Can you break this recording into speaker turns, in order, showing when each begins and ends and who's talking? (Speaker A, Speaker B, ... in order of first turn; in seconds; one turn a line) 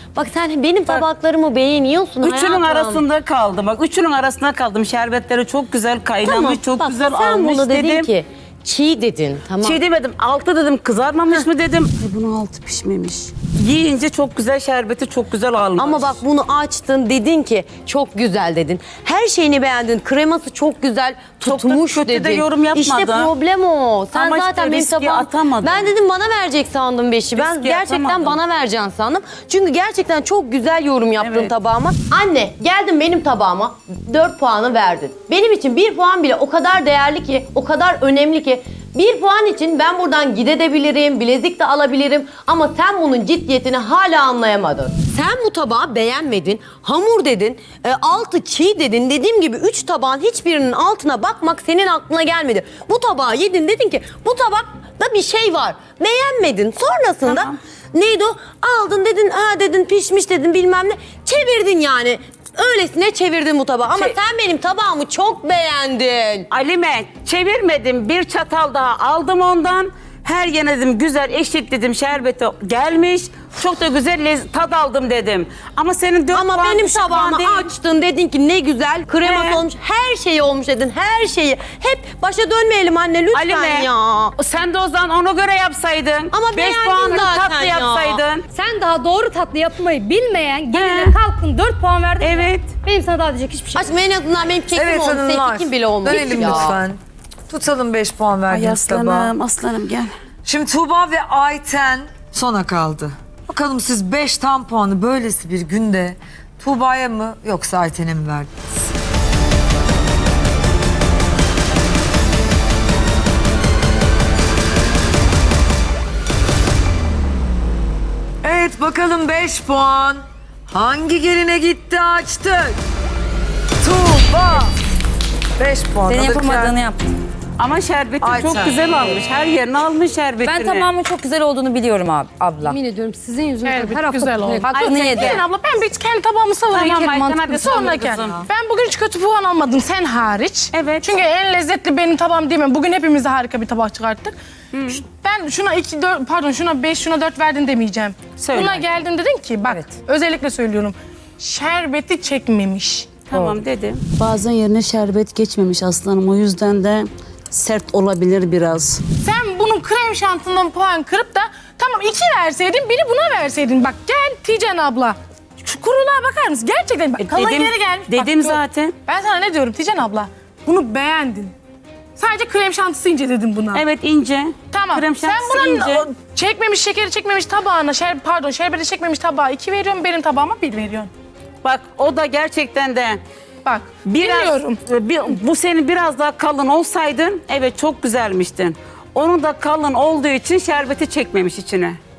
Speaker A: 0.1-3.0
Speaker B: 2.2-8.1
Speaker A: 6.2-9.8
Speaker B: 9.6-16.2
Speaker A: 15.8-66.5
Speaker B: 21.4-23.3
Speaker B: 24.1-25.9
Speaker B: 27.4-28.4
Speaker B: 31.2-31.5
Speaker B: 57.2-57.6
Speaker B: 66.5-77.7
Speaker A: 76.3-84.3
Speaker B: 79.2-79.6
Speaker B: 83.3-88.4
Speaker A: 86.3-88.2
Speaker C: 88.5-93.9
Speaker B: 90.7-91.2
Speaker B: 92.2-92.7
Speaker A: 93.8-96.8
Speaker D: 94.7-97.0
Speaker B: 96.3-96.6
Speaker D: 97.5-99.3
Speaker B: 98.5-100.1
Speaker D: 100.5-108.6
Speaker D: 118.4-122.8
Speaker D: 123.8-124.8
Speaker D: 125.6-126.7
Speaker E: 126.1-127.2
Speaker B: 127.6-130.9
Speaker D: 128.2-129.1
Speaker E: 130.4-132.8
Speaker C: 132.7-135.0
Speaker F: 133.6-144.3
Speaker E: 134.6-135.4
Speaker B: 136.7-138.5
Speaker B: 140.7-141.2
Speaker B: 144.7-145.0
Speaker F: 144.9-153.2
Speaker B: 148.4-148.9
Speaker B: 153.3-159.0
Speaker E: 153.3-153.6
Speaker F: 159.2-171.5
Speaker B: 167.2-168.9
Speaker F: 172.2-173.8
Speaker B: 173.7-176.1
Speaker F: 174.7-181.1
Speaker B: 181.6-183.2
Speaker F: 183.7-184.8
Speaker B: 184.1-192.0